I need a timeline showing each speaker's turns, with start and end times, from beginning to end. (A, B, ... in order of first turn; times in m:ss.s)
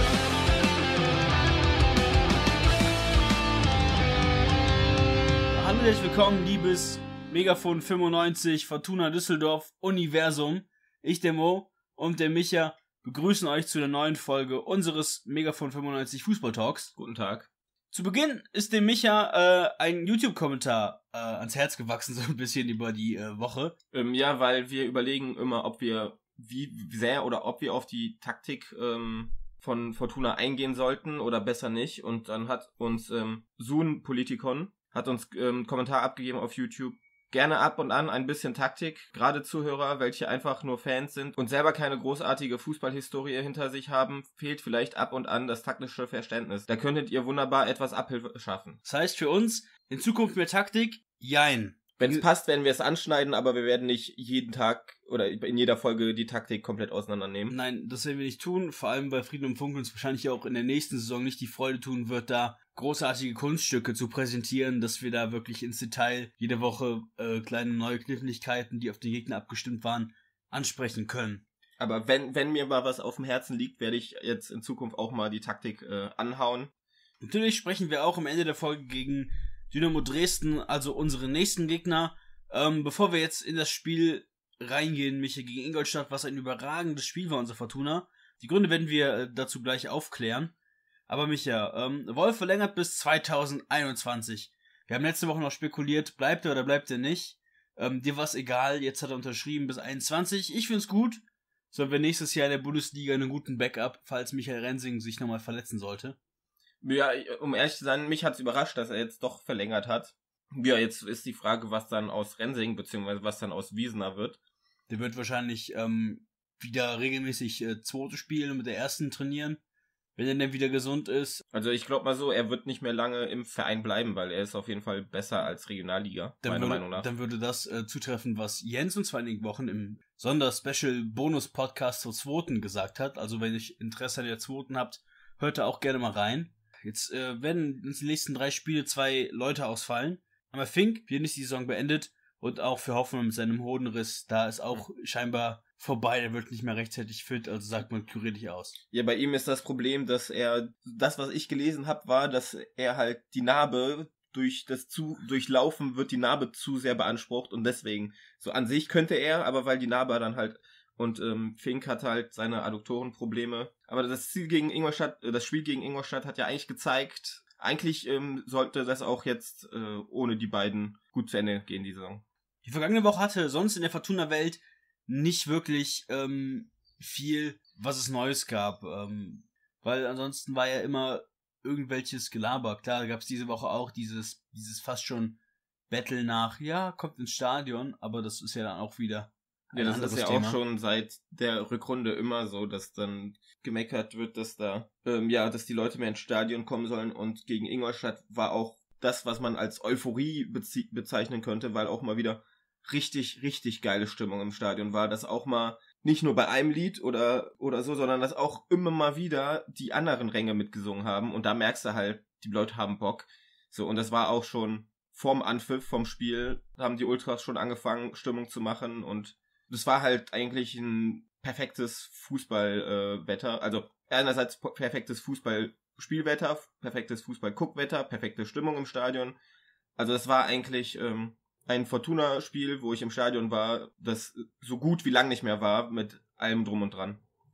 0:05.5-0:16.9 A
0:17.0-0:17.5 B
0:17.9-0:23.7 A
0:23.9-0:48.8 B
0:48.8-0:52.2 A
0:52.0-0:57.6 B
0:57.5-1:11.4 A
1:11.8-1:16.7 B
1:17.2-1:30.5 A
1:31.1-1:41.2 A
1:41.7-1:46.2 A
1:46.8-1:54.4 B
1:54.9-1:59.6 A
2:00.2-2:01.4 A
2:01.5-2:07.1 B
2:06.4-2:28.8 A
2:28.9-2:52.2 B
2:52.6-3:05.4 A
3:05.9-3:10.6 A
3:09.7-3:49.4 B
3:50.0-3:57.2 B